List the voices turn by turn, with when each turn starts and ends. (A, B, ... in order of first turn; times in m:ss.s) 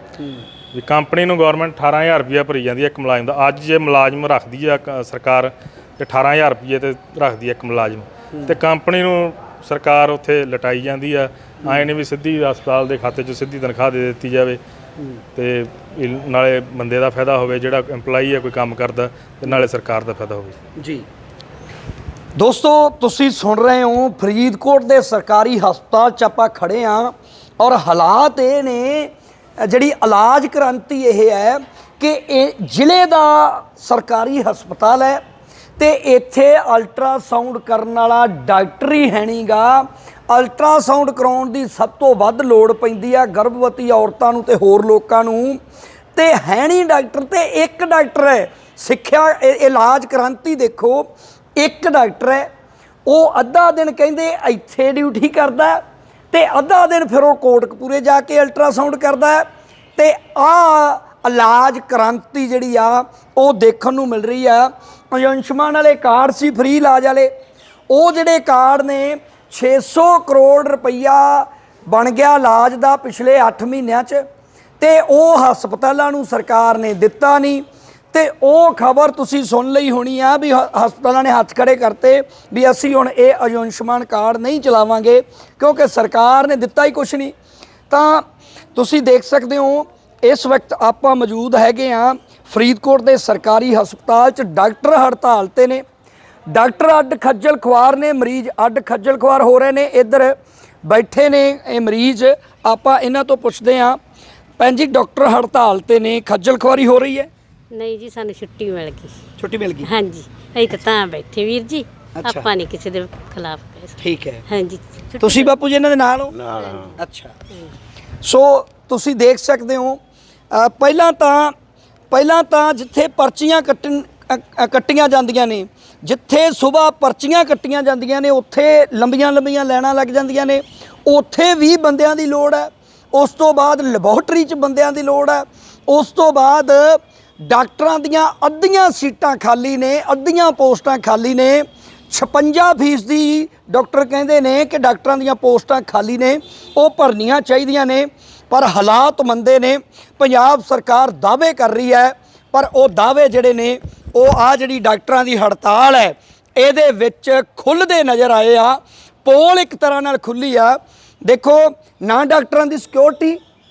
0:00.7-0:14.6 A
0:15.3-0:20.6 A
0:20.8-0:21.0 B
0:22.3-0:35.2 B
0:35.8-0:45.6 B
0:46.1-0:52.5 B
0:53.0-0:55.8 B
0:56.3-0:59.4 B
1:00.0-1:07.3 B
1:07.9-1:14.2 B
1:14.8-1:27.3 B
1:27.9-1:35.8 B
1:36.5-1:44.0 B
1:44.6-1:47.3 B
1:47.7-1:49.2 C
1:49.4-1:49.9 B
1:49.8-1:55.5 C
1:52.2-1:52.5 B
1:54.0-1:54.4 B
1:55.2-1:56.4 B
1:56.5-1:57.0 C
1:57.0-1:57.3 B
1:58.2-2:00.0 B
2:00.5-2:01.5 B
2:02.1-2:43.4 B